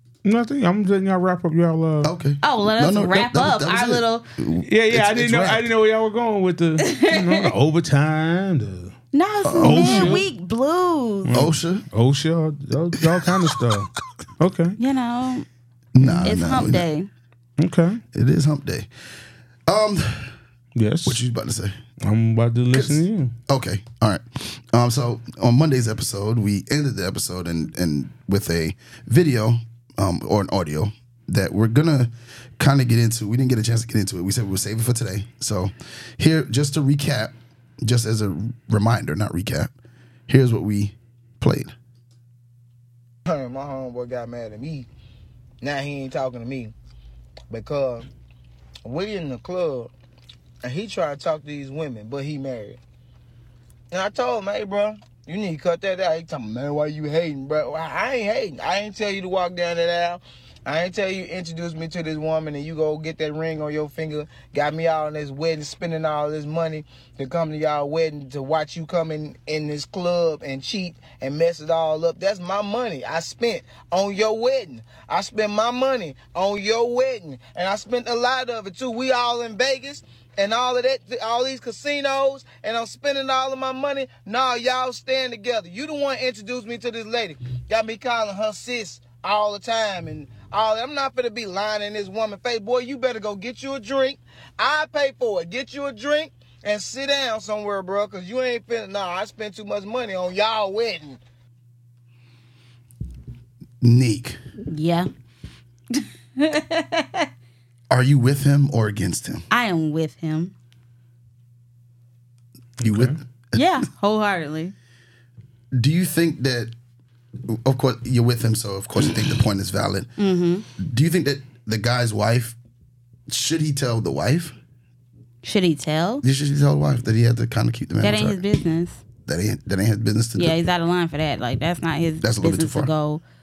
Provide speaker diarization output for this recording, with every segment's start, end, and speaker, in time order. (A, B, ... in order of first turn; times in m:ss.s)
0:00.2-0:02.1 A
0:02.0-0:05.7 B
0:02.4-0:04.3 C
0:04.6-0:08.9 A
0:06.8-0:07.5 C
0:09.1-0:11.3 C
0:09.4-0:10.2 B
0:09.6-0:10.3 A
0:11.2-0:14.8 A
0:11.3-0:11.8 B
0:13.0-0:13.7 B
0:14.8-0:15.4 C
0:15.9-0:16.8 B
0:16.0-0:16.3 A
0:16.2-0:17.1 C
0:17.6-0:18.0 A
0:18.1-0:18.9 B
0:19.7-0:20.3 B
0:20.8-0:21.2 A
0:21.0-0:21.8 B
0:22.0-0:23.3 A
0:22.7-0:39.7 B
0:40.3-0:41.7 B
0:43.2-0:44.9 D
0:45.6-0:46.7 D
0:47.5-0:48.1 D
0:48.8-0:49.9 D
0:50.6-0:52.8 D
0:53.9-1:41.2 D
1:43.8-1:44.4 B
1:44.6-1:45.1 C
1:45.9-1:47.3 C
1:47.9-1:49.4 B
1:49.5-1:50.5 C
1:52.8-1:53.2 A
1:52.8-1:53.6 B
1:53.5-1:54.7 C
1:55.7-1:56.7 B
1:57.5-2:00.1 B
2:00.2-2:00.6 C
2:00.8-2:02.6 B
2:03.3-2:04.5 B
2:05.4-2:06.2 C
2:06.2-2:08.4 B
2:08.0-2:09.0 C
2:09.2-2:10.6 B
2:10.4-2:13.2 C
2:12.2-2:12.9 B